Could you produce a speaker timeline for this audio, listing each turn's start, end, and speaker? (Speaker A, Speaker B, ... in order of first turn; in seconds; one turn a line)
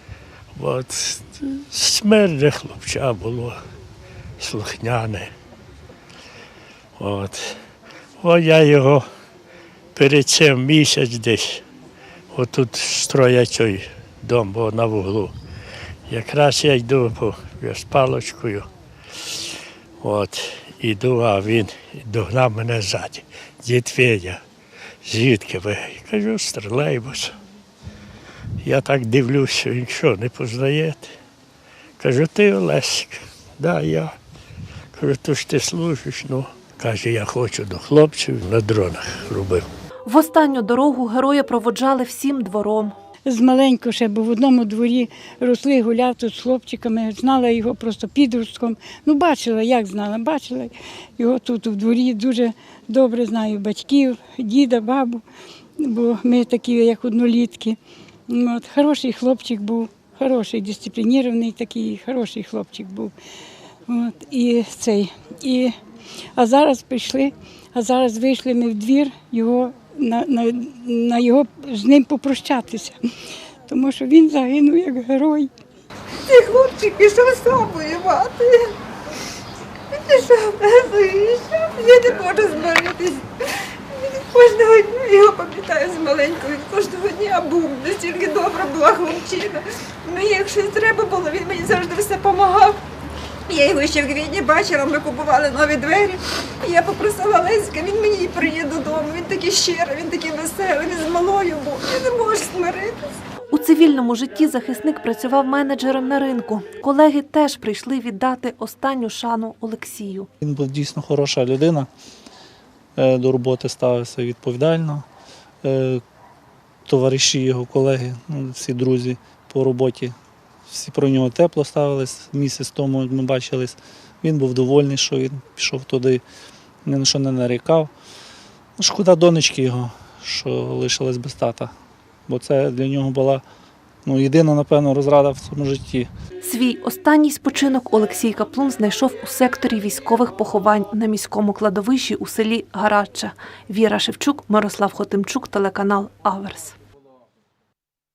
Speaker A: 0.6-3.6
Speaker A: 4.4-5.3
Speaker A: 7.0-7.6
Speaker A: 8.2-9.1
Speaker A: 9.9-11.6
Speaker A: 12.3-15.3
Speaker A: 16.1-18.7
Speaker A: 20.0-24.4
Speaker A: 25.1-27.3
Speaker A: 28.6-31.1
Speaker A: 32.0-34.1
Speaker A: 35.0-39.6
Speaker B: 40.1-43.0
Speaker C: 43.3-55.2
Speaker C: 55.8-57.8
Speaker C: 58.3-63.1
Speaker C: 63.9-65.8
Speaker C: 66.4-73.0
Speaker C: 73.7-75.5
Speaker D: 76.3-78.6
Speaker D: 80.1-83.2
Speaker D: 84.0-92.8
Speaker D: 93.5-103.0
Speaker B: 103.5-110.3
Speaker E: 110.4-111.9
Speaker E: 113.0-115.0
Speaker E: 115.6-116.0
Speaker E: 116.9-120.2
Speaker E: 120.7-126.2
Speaker E: 126.8-127.9
Speaker E: 128.8-131.7
Speaker E: 132.3-133.4
Speaker E: 134.1-136.1
Speaker B: 136.4-146.8